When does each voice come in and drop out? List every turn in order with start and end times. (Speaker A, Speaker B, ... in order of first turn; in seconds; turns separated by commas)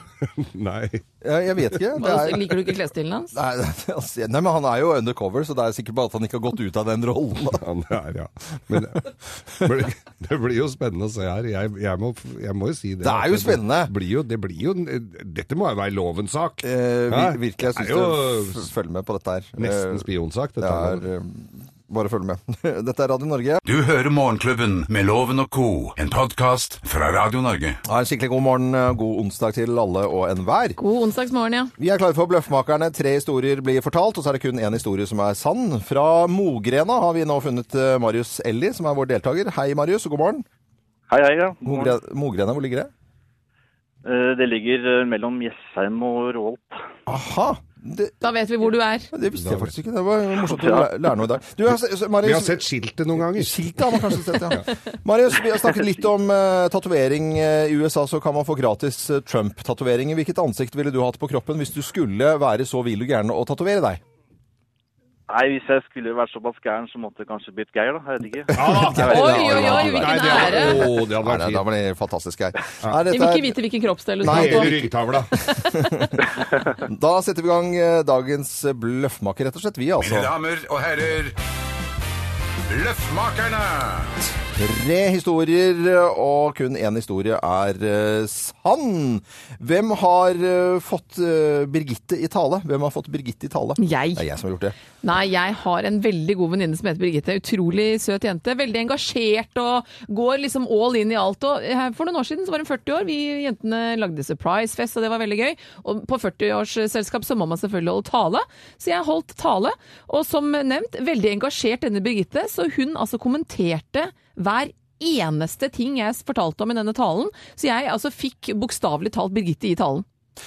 Speaker A: 0.2-1.0, Speaker B: 1.2-2.6, Speaker C: 2.0-3.4, Speaker B: 3.3-7.6, Speaker A: 7.5-18.7, Speaker B: 13.0-13.9, Speaker B: 16.6-20.1, Speaker A: 19.6-21.0, Speaker B: 20.6-23.6, Speaker D: 23.7-27.8, Speaker B: 27.9-30.8, Speaker C: 30.8-31.7, Speaker B: 31.8-40.5, Speaker E: 41.1-41.9, Speaker B: 41.6-42.9, Speaker E: 44.0-46.8, Speaker B: 47.1-48.1, Speaker C: 48.2-49.1, Speaker B: 49.1-52.6, Speaker A: 49.4-49.7, Speaker E: 50.5-50.9, Speaker A: 52.2-54.6, Speaker B: 53.2-64.0, Speaker E: 65.3-68.6, Speaker A: 68.5-71.6, Speaker B: 68.5-73.6, Speaker C: 68.9-70.8, Speaker C: 73.1-74.8, Speaker B: 74.2-80.3, Speaker A: 74.2-75.3, Speaker C: 75.7-76.1, Speaker D: 80.0-81.4, Speaker D: 82.7-84.2, Speaker B: 84.5-94.8, Speaker C: 93.8-94.2, Speaker C: 95.0-120.0